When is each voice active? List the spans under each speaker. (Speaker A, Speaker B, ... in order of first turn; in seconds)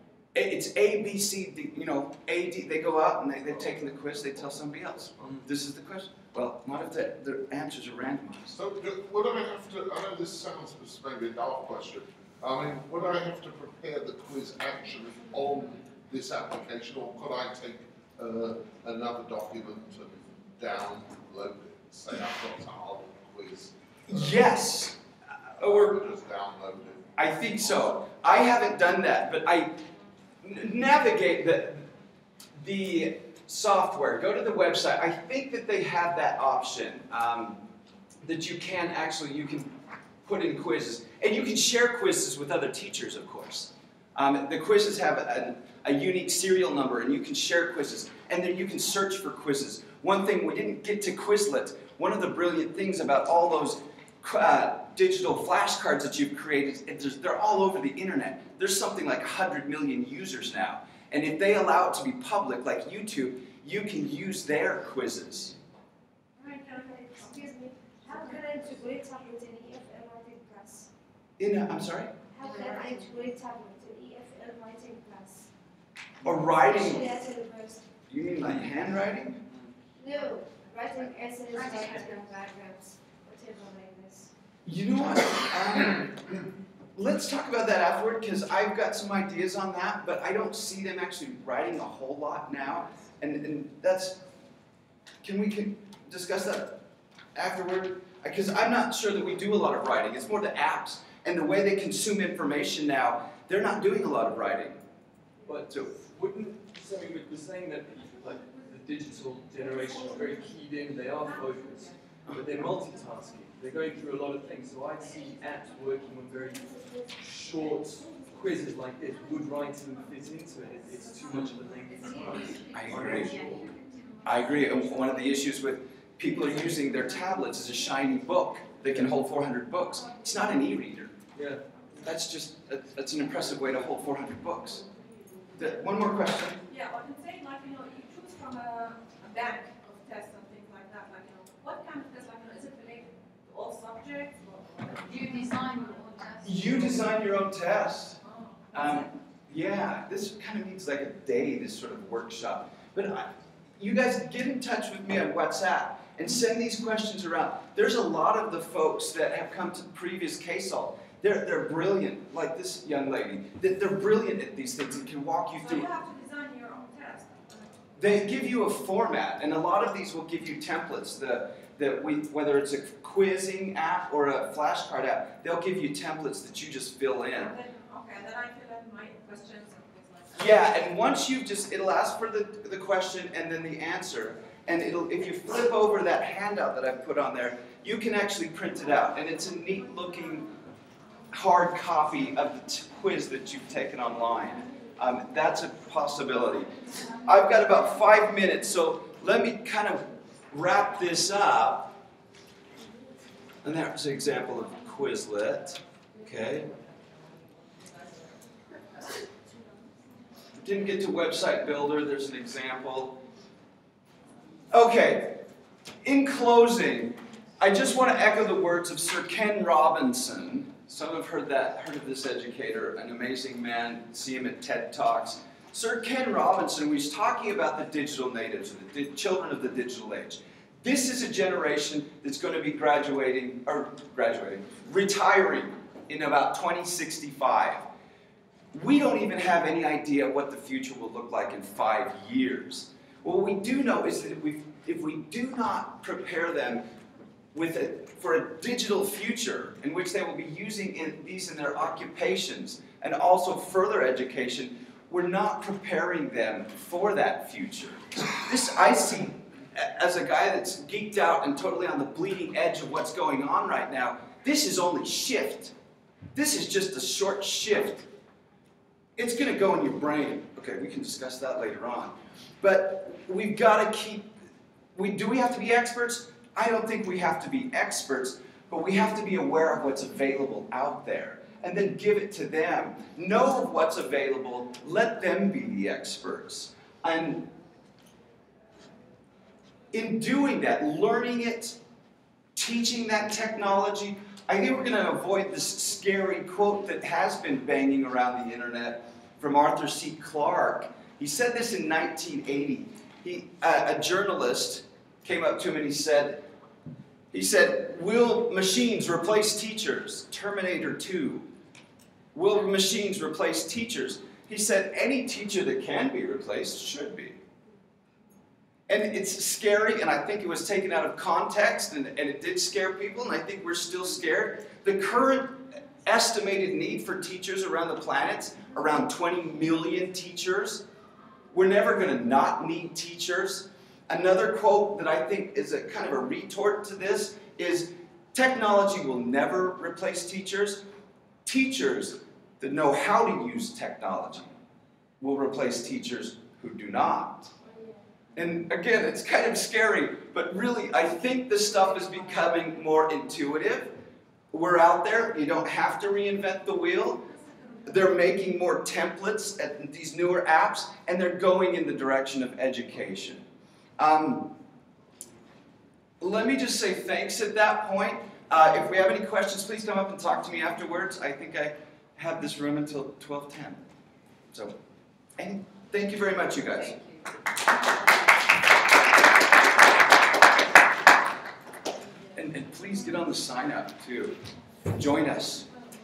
Speaker A: 0.3-8.6, 24.1-25.0, 25.6-26.0, 27.2-29.7, 30.4-31.9, 32.5-37.6, 38.2-39.7, 40.2-65.5, 71.4-72.1, 76.2-77.1, 78.1-79.4, 84.6-86.4, 86.9-94.2, 95.2-96.8, 97.3-104.8, 122.7-123.4, 124.2-131.1, 132.0-134.8, 135.6-136.6, 146.4-148.2, 148.7-165.9, 168.0-177.5, 180.3-190.5, 191.3-196.7, 197.2-201.9, 203.6-206.7, 210.6-213.2, 214.7-215.4, 216.0-237.8, 238.7-246.8, 247.5-265.7, 266.3-268.1, 269.2-274.4, 274.9-287.5, 289.9-291.8, 292.5-306.4, 307.3-311.4, 312.3-317.4, 318.9-330.8, 331.5-340.8, 341.4-344.5, 345.2-347.5, 348.3-353.9, 354.5-357.2, 357.9-363.4, 364.0-364.5, 366.2-373.8, 375.4-377.0, 382.3-385.7
Speaker B: 8.5-24.5, 25.6-27.1
Speaker C: 66.4-67.2, 68.1-68.4, 72.5-72.7, 81.5-82.1, 136.7-145.4, 148.2-149.0, 165.6-167.6, 177.4-180.8
Speaker D: 66.9-70.9, 72.3-75.5, 76.5-77.9, 80.0-84.3, 347.6-348.0
Speaker E: 105.4-123.7, 128.8-129.1, 131.3-132.0
Speaker F: 145.0-147.1